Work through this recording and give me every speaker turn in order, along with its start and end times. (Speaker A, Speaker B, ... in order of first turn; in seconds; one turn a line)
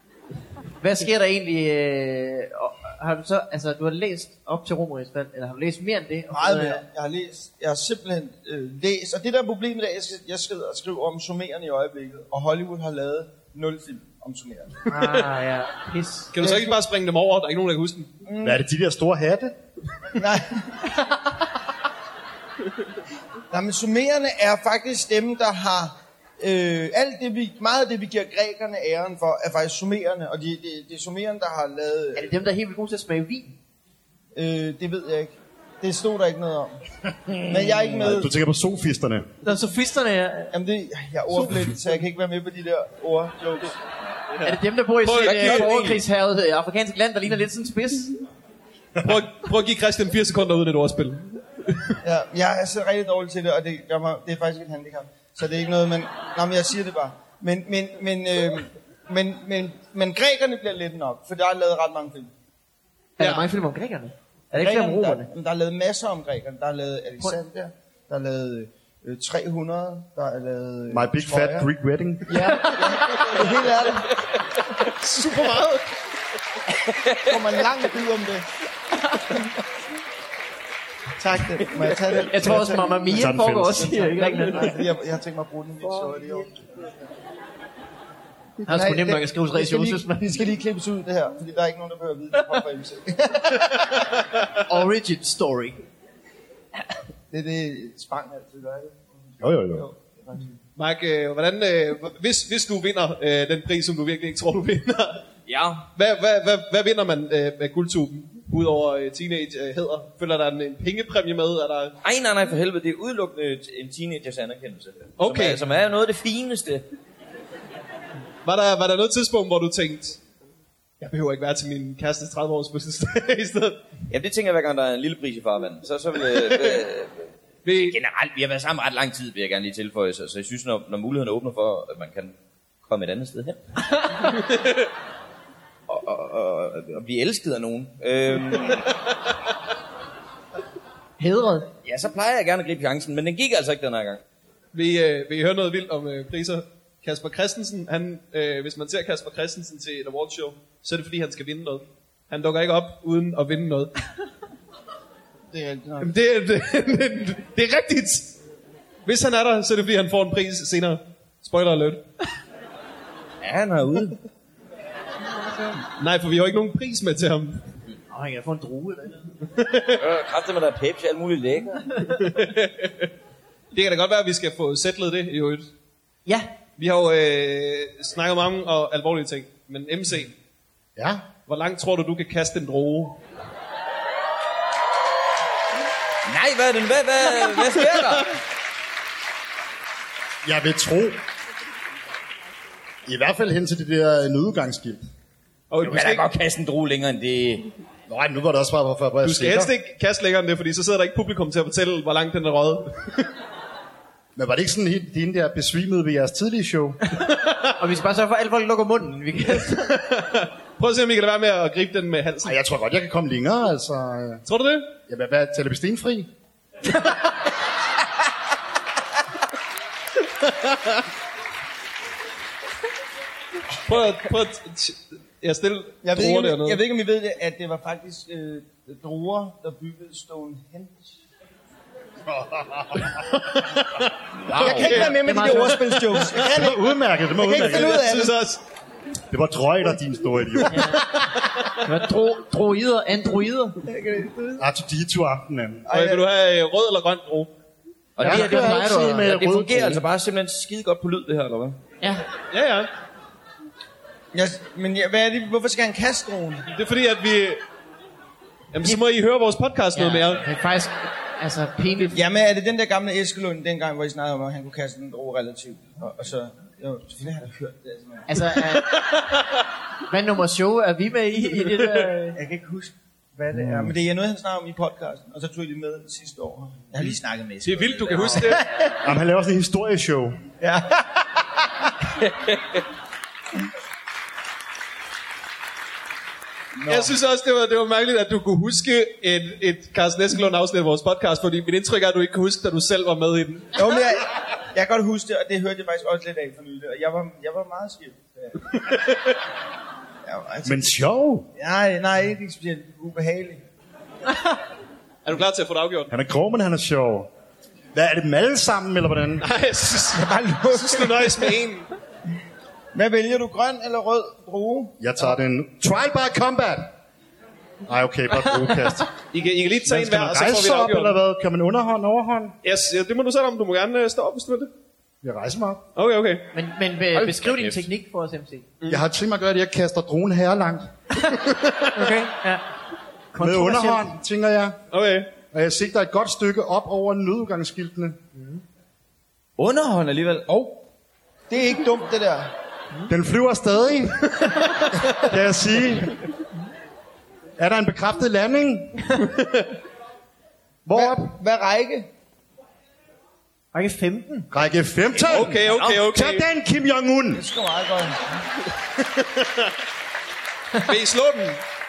Speaker A: 0.8-6.8
Speaker B: 6.3-14.8
Speaker A: 14.9-16.3
Speaker C: 14.9-15.3
Speaker C: 16.3-18.1
Speaker B: 16.4-16.7
Speaker B: 18.2-18.6
Speaker D: 18.4-19.6
Speaker B: 20.1-20.6
Speaker B: 23.5-32.3
Speaker A: 32.1-33.5
Speaker B: 34.3-36.8
Speaker B: 37.5-38.3
Speaker D: 37.7-39.2
Speaker A: 39.4-40.5
Speaker B: 40.5-43.8
Speaker C: 44.4-45.8
Speaker A: 44.4-48.2
Speaker E: 45.2-46.0
Speaker C: 49.0-52.0
Speaker B: 52.0-62.3
Speaker A: 63.2-65.3
Speaker C: 63.2-63.4
Speaker B: 64.5-71.7
Speaker D: 70.9-72.5
Speaker B: 72.3-74.1
Speaker A: 72.3-73.5
Speaker C: 74.9-75.9
Speaker E: 76.9-77.4
Speaker B: 77.2-78.4
Speaker A: 79.1-79.3
Speaker B: 81.2-86.6
Speaker A: 82.1-84.8
Speaker D: 83.1-84.0
Speaker A: 88.6-90.5
Speaker B: 88.7-94.0
Speaker C: 94.1-94.5
Speaker A: 94.7-95.8
Speaker B: 97.3-100.6
Speaker D: 99.4-99.8
Speaker C: 100.8-105.2
Speaker E: 105.5-105.8
Speaker C: 106.0-112.0
Speaker E: 112.0-116.8
Speaker C: 115.2-115.6
Speaker C: 118.4-120.2
Speaker C: 121.0-123.8
Speaker E: 124.1-133.6
Speaker C: 127.6-128.0
Speaker C: 134.3-134.8
Speaker E: 135.9-138.9
Speaker A: 141.2-141.7
Speaker E: 141.8-144.2
Speaker C: 144.7-153.9
Speaker B: 155.5-156.1
Speaker C: 156.0-158.3
Speaker C: 159.1-162.0
Speaker E: 163.4-164.2
Speaker C: 166.0-167.6
Speaker A: 168.1-169.3
Speaker C: 169.5-170.0
Speaker E: 170.0-171.8
Speaker C: 172.1-173.1
Speaker C: 173.7-175.7
Speaker C: 176.8-180.3
Speaker D: 180.9-181.3
Speaker C: 181.4-183.2
Speaker E: 186.3-188.4
Speaker D: 190.4-191.2
Speaker D: 193.1-195.0
Speaker C: 195.7-196.2
Speaker E: 195.8-197.7
Speaker D: 198.1-199.7
Speaker C: 199.2-203.3
Speaker D: 204.3-207.0
Speaker C: 207.4-207.7
Speaker A: 207.8-210.0
Speaker C: 209.6-212.6
Speaker D: 212.4-214.4
Speaker C: 214.4-214.9
Speaker D: 215.0-216.3
Speaker C: 220.4-221.0
Speaker C: 223.9-226.8
Speaker B: 226.0-231.1
Speaker D: 232.3-233.1
Speaker C: 233.1-235.6
Speaker E: 234.5-234.9
Speaker B: 234.5-238.4
Speaker D: 234.6-235.1
Speaker A: 234.7-236.2
Speaker D: 236.4-238.1
Speaker C: 237.6-238.6
Speaker D: 239.3-240.9
Speaker A: 240.7-241.0
Speaker C: 240.9-241.9
Speaker A: 241.8-243.8
Speaker B: 243.8-244.7
Speaker D: 244.6-245.8
Speaker B: 245.8-246.2
Speaker C: 245.9-247.5
Speaker E: 248.2-251.8
Speaker D: 248.2-250.0
Speaker A: 248.2-249.6
Speaker A: 252.0-252.2
Speaker C: 252.5-252.9
Speaker B: 254.3-256.6
Speaker C: 256.7-257.6
Speaker C: 258.7-260.4
Speaker A: 259.9-262.2
Speaker B: 262.1-268.3
Speaker A: 268.3-269.1
Speaker C: 268.7-269.6
Speaker A: 270.1-272.4
Speaker C: 271.6-272.1
Speaker B: 272.3-278.9
Speaker D: 273.5-273.9
Speaker C: 277.6-278.6
Speaker D: 279.0-280.4
Speaker B: 280.6-281.1
Speaker E: 282.2-282.8
Speaker B: 286.8-287.1
Speaker C: 286.9-293.7
Speaker B: 293.8-298.6
Speaker C: 298.9-299.4
Speaker B: 300.2-301.0
Speaker D: 300.6-301.5
Speaker B: 301.6-303.6
Speaker C: 305.2-306.1
Speaker D: 306.1-307.3
Speaker D: 307.9-309.5
Speaker C: 309.4-311.9
Speaker B: 310.1-311.5
Speaker B: 312.9-315.0
Speaker D: 315.0-316.9
Speaker D: 317.8-319.1
Speaker A: 318.5-318.9
Speaker C: 319.3-321.2
Speaker D: 319.8-322.5
Speaker C: 322.6-324.7
Speaker D: 325.2-325.8
Speaker C: 325.9-326.5
Speaker A: 326.5-328.7
Speaker C: 327.3-327.7
Speaker D: 328.9-330.9
Speaker C: 331.4-332.1
Speaker A: 331.9-332.6
Speaker A: 333.3-334.1
Speaker D: 333.4-334.8
Speaker C: 334.9-335.3
Speaker D: 335.5-338.2
Speaker A: 338.3-338.6
Speaker E: 339.6-340.8
Speaker B: 341.5-342.5
Speaker D: 343.1-344.4
Speaker D: 345.1-346.1
Speaker D: 347.6-349.2
Speaker C: 349.3-349.7
Speaker D: 350.8-351.4
Speaker B: 350.9-352.1
Speaker A: 353.7-354.5
Speaker D: 354.5-357.4
Speaker C: 355.2-356.4
Speaker B: 357.3-358.2
Speaker C: 358.9-359.7
Speaker C: 360.7-361.6